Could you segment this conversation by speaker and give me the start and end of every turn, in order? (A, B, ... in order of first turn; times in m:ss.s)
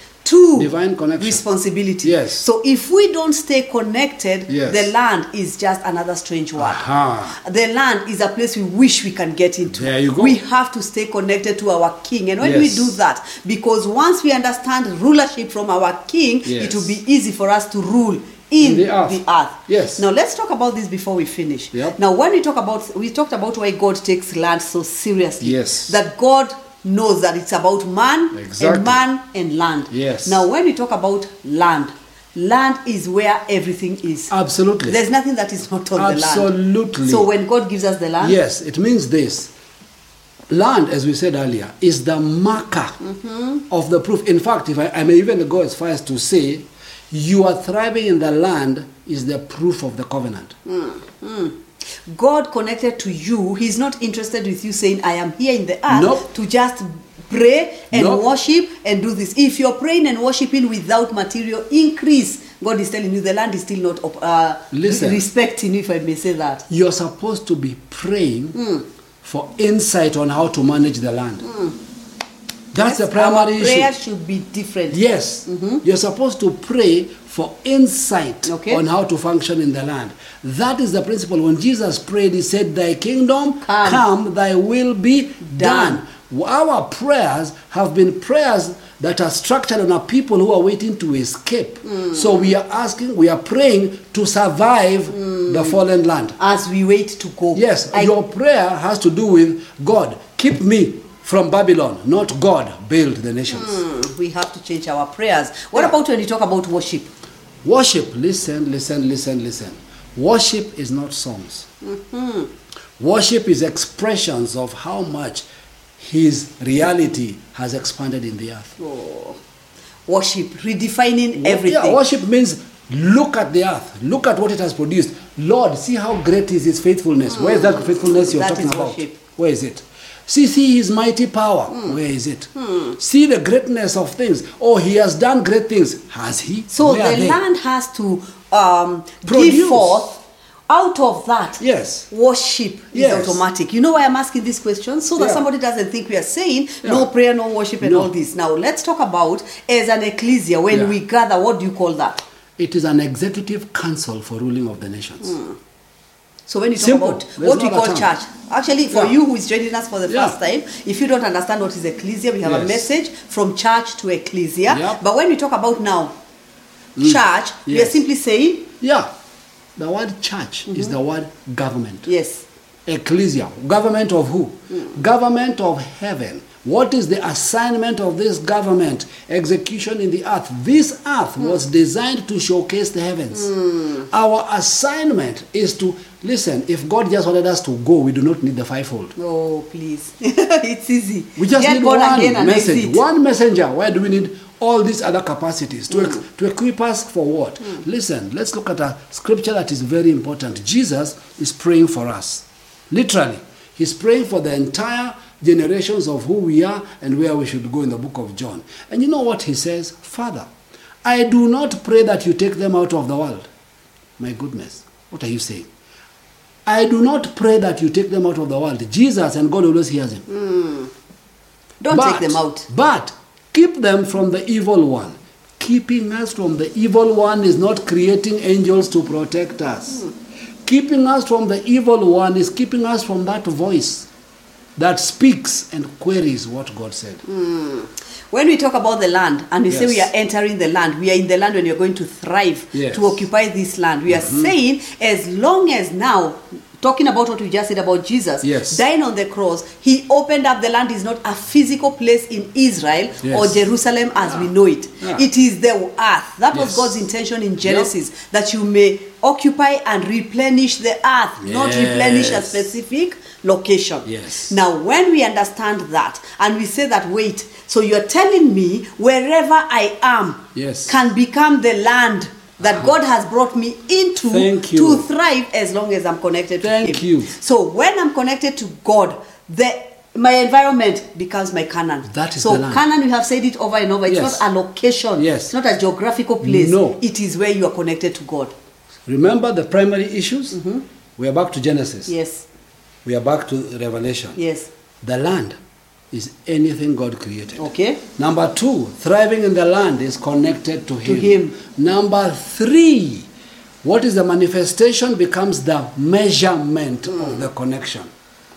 0:00.2-0:34.3 A
0:00.6-0:01.4 B
0:02.0-0:02.5 B
0:04.5-0:04.9 B
0:06.6-0:07.4 B
0:09.7-0:10.4 B
0:12.4-0:13.0 B
0:16.4-0:17.0 B
0:18.6-0:20.0 B
0:25.4-0:26.0 B
0:28.3-0:29.0 B
0:29.9-0:30.4 B
0:34.3-0:35.0 B
0:34.9-0:36.5 A
0:36.0-0:37.3 B
0:37.0-0:38.4 A
0:38.2-0:39.5 B
0:40.5-0:43.0 B
0:43.0-0:43.6 A
0:43.7-0:50.5 B
0:50.7-0:51.6 A
0:52.1-1:06.6 A
0:55.9-0:56.3 B
0:57.9-0:58.2 B
1:04.7-1:05.2 B
1:06.7-1:08.6 B
1:08.6-1:08.8 A
1:09.2-1:11.5 B
1:11.4-1:11.7 A
1:12.7-1:13.9 B
1:12.8-1:15.8 A
1:14.9-1:36.4 B
1:18.4-1:18.8 A
1:23.6-1:24.0 A
1:25.4-1:26.0 A
1:31.9-1:32.4 A
1:35.1-1:35.8 A
1:36.4-1:38.1 A
1:37.5-1:43.8 B
1:43.5-1:47.1 A
1:47.6-1:51.7 B
1:51.8-1:52.5 A
1:53.0-1:55.4 B
1:56.0-1:58.7 B
1:58.8-1:59.4 A
2:00.1-2:02.0 A
2:01.4-2:17.4 B
2:07.4-2:09.2 A
2:16.7-2:32.2 A
2:19.2-2:20.1 B
2:21.6-2:22.1 B
2:22.9-2:23.4 B
2:25.2-2:25.4 B
2:27.8-2:28.1 B
2:30.7-2:31.0 B
2:32.6-2:35.4 B
2:35.2-2:35.5 A
2:36.5-2:46.1 A
2:36.8-2:38.1 B
2:40.1-2:40.4 B
2:42.4-2:42.9 B
2:44.7-2:45.0 B
2:47.0-2:48.0 B
2:47.0-2:48.7 A
2:48.8-2:49.1 B
2:49.8-2:52.1 B
2:52.1-2:52.4 A
2:52.9-3:09.1 B
3:03.4-3:04.0 A
3:09.2-3:13.0 A
3:11.4-3:30.5 B
3:31.0-3:33.4 B
3:34.2-3:35.7 B
3:36.7-3:40.2 B
3:40.3-3:40.9 A
3:41.8-3:42.7 A
3:41.9-3:50.1 B
3:50.6-3:54.1 B
3:54.8-3:57.2 B
3:57.3-4:48.5 A
3:59.7-4:00.1 B
4:02.7-4:03.2 B
4:04.1-4:04.5 B
4:08.4-4:08.8 B
4:13.2-4:13.6 B
4:16.5-4:17.1 B
4:17.6-4:17.9 B
4:21.4-4:22.6 B
4:24.0-4:24.6 B
4:30.6-4:31.0 B
4:32.6-4:32.9 B
4:34.2-4:35.1 B
4:36.6-4:37.3 B
4:42.1-4:42.8 B
4:44.1-4:44.4 B
4:45.2-4:45.5 B
4:46.4-4:47.0 B
4:49.1-4:50.6 B
4:50.5-4:50.8 A
4:51.2-4:52.1 B
4:52.1-4:52.4 A
4:53.0-4:54.4 B
4:54.4-4:54.7 A
4:55.0-4:55.6 B
4:56.1-5:03.3 B
4:57.6-4:58.0 A
5:01.0-5:01.6 A
5:03.8-5:08.1 B